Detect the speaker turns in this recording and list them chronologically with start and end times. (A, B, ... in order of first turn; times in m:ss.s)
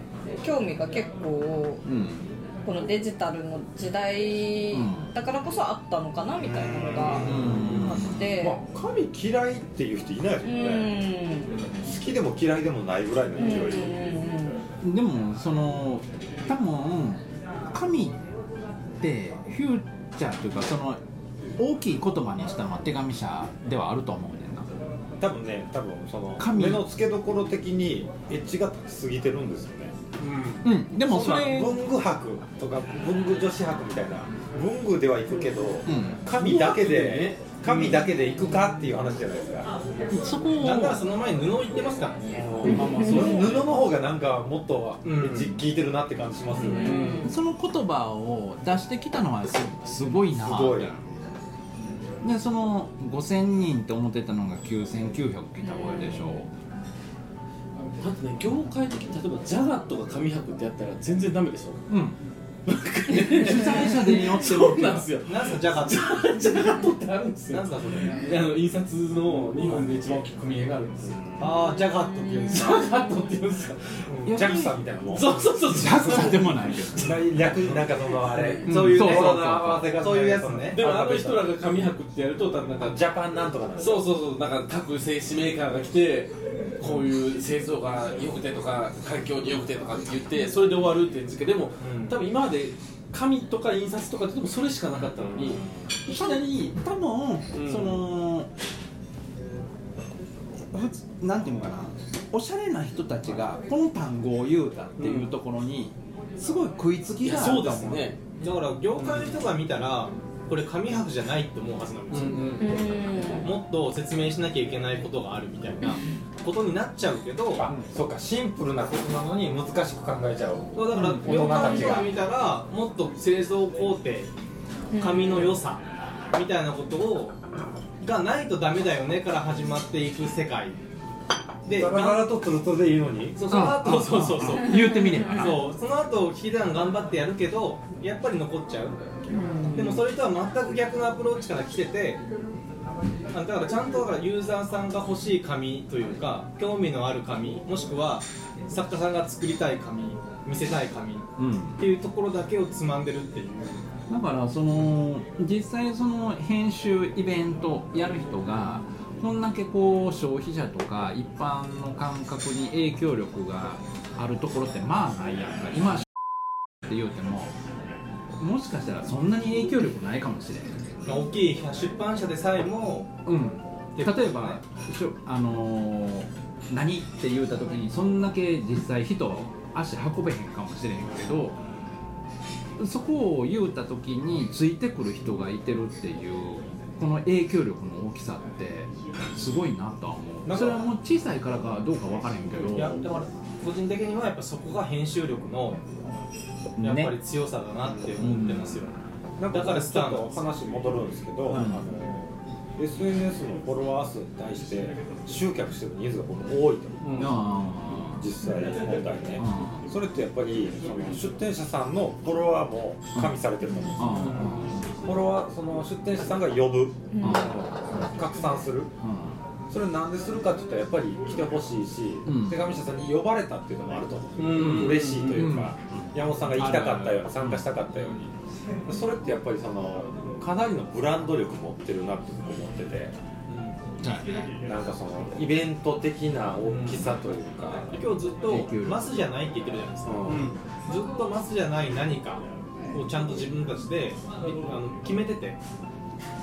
0:00.4-0:01.8 A
0:01.8-0:02.3 B
0:02.6-0:08.6 A
0:04.7-0:05.1 B
0:06.4-0:11.0 C
0:07.2-0:08.3 B
0:07.3-0:07.6 D
0:10.4-0:11.5 A
0:11.8-0:14.0 C
0:13.4-0:14.6 A
0:14.8-0:18.2 B
0:19.0-0:21.0 B
0:21.6-0:24.7 B
0:25.2-0:29.9 C
0:26.4-0:26.8 B
0:30.2-0:30.5 E
0:30.6-0:31.8 B
0:31.0-0:39.7 C
0:35.8-0:36.2 B
0:36.3-0:37.8 E
0:37.7-0:37.9 D
0:40.1-0:41.0 B
0:40.6-0:42.6 D
0:42.3-0:47.2 C
0:42.6-0:43.7 E
0:42.6-0:43.4 A
0:45.0-0:45.6 D
0:46.6-0:47.3 E
0:46.6-0:47.3 A
0:47.2-0:51.2 B
0:50.4-0:50.9 C
0:52.2-0:56.5 B
0:55.6-0:56.4 A
0:58.0-1:01.8 E
1:01.9-1:02.2 B
1:02.6-1:11.2 E
1:03.1-1:05.1 B
1:05.2-1:06.2 D
1:07.5-1:08.2 D
1:11.0-1:11.5 C
1:11.4-1:12.8 D
1:11.9-1:12.8 A
1:12.5-1:14.0 E
1:14.2-1:14.7 B
1:14.2-1:16.3 C
1:15.1-1:17.0 E
1:15.7-1:17.2 B
1:17.0-1:21.6 C
1:18.6-1:20.8 D
1:18.6-1:19.9 B
1:20.7-1:23.1 E
1:22.8-1:24.1 C
1:23.8-1:36.6 E
1:31.8-1:32.2 D
1:35.4-1:35.7 C
1:36.1-1:38.5 B
1:37.5-1:38.1 E
1:40.7-1:48.1 B
1:45.0-1:45.3 E
1:47.2-1:48.2 E
1:48.4-1:57.7 D
1:49.0-1:49.3 E
1:52.1-1:52.8 E
1:52.6-1:53.5 A
1:57.6-2:02.1 C
2:00.8-2:04.3 D
2:00.9-2:01.5 B
2:01.5-2:01.8 A
2:04.9-2:05.5 A
2:05.0-2:07.4 D
2:08.0-2:10.8 D
2:11.6-2:12.3 D
2:11.7-2:13.5 C
2:13.4-2:19.0 D
2:13.5-2:15.7 B
2:14.6-2:15.4 A
2:19.3-2:20.0 A
2:19.7-2:22.2 D
2:23.3-2:33.9 D
2:31.4-2:31.8 B
2:34.1-2:46.0 B
2:46.8-2:47.5 B
2:48.4-2:50.8 B
2:51.0-2:53.2 D
2:53.2-3:01.6 B
2:53.9-2:54.6 D
3:02.8-3:13.0 B
3:10.5-3:10.8 C
3:12.6-3:15.8 D
3:16.8-3:17.1 B
3:16.8-3:20.4 D
3:18.2-3:18.8 B
3:19.4-3:27.4 C
3:21.5-3:21.8 B
3:27.0-3:27.4 E
3:27.2-3:28.2 B
3:28.2-3:34.3 C
3:29.4-3:29.9 B
3:34.0-3:34.9 B
3:34.0-3:34.9 E
3:35.0-3:38.9 C
3:37.1-3:37.6 A
3:37.2-3:37.7 B
3:39.0-3:39.4 B
3:39.7-3:48.3 C
3:42.2-3:42.6 B
3:44.4-3:45.5 E
3:44.5-3:47.6 B
3:48.8-3:53.1 C
3:53.5-3:53.8 D
3:54.0-3:54.3 B
3:54.6-3:58.0 C
3:56.6-3:57.1 D
3:57.9-4:05.6 D
3:58.5-3:59.1 B
4:00.0-4:00.5 C
4:00.3-4:00.6 E